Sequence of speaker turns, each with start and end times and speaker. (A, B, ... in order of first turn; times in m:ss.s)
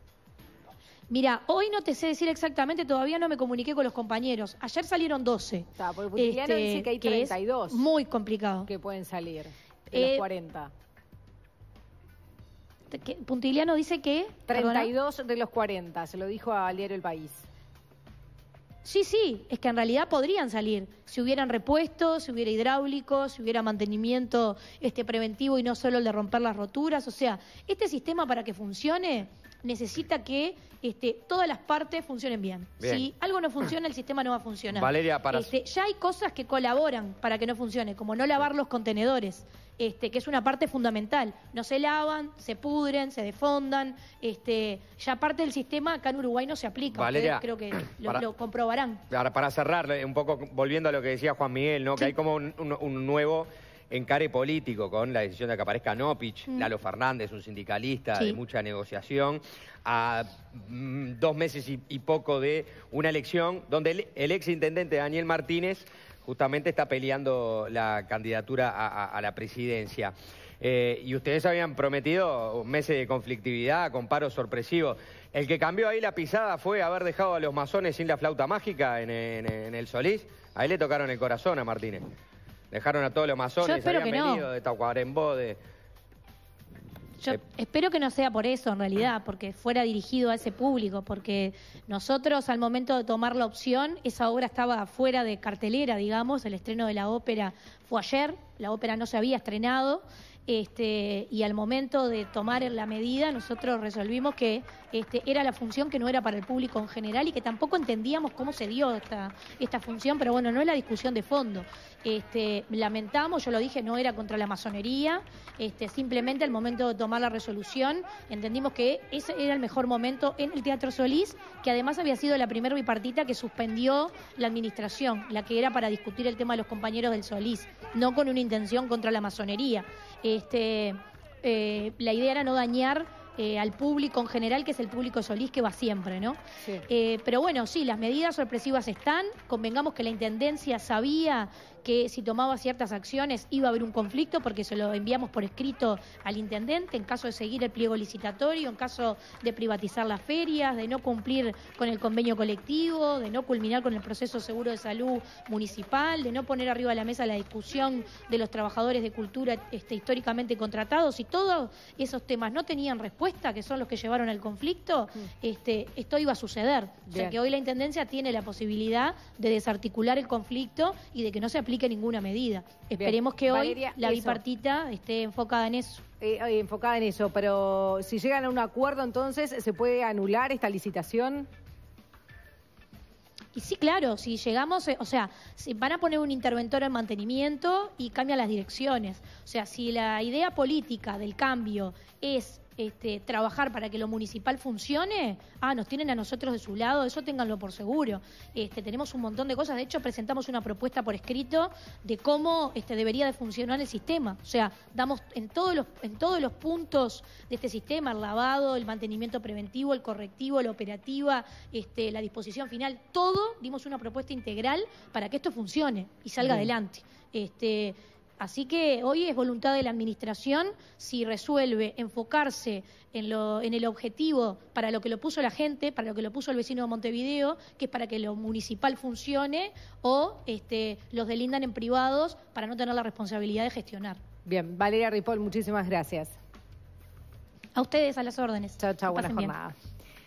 0:01.1-0:08.7 A
0:05.8-0:07.9 B
0:08.7-0:10.7 B
0:09.9-0:10.3 A
0:12.9-0:14.9 A
0:14.5-0:17.5 B
0:18.8-0:49.0 A
0:32.8-0:33.1 C
0:34.7-0:35.5 C
0:46.9-0:47.5 C
0:49.1-1:22.0 C
1:22.7-1:25.6 C
1:23.6-1:24.5 A
1:27.2-2:56.0 A
2:47.1-2:47.4 B
2:53.0-2:54.4 B
2:56.2-3:01.5 B
3:03.6-3:54.2 A
3:36.4-3:36.7 B
3:54.5-3:56.4 B
3:57.8-3:59.5 A
3:58.8-3:59.8 B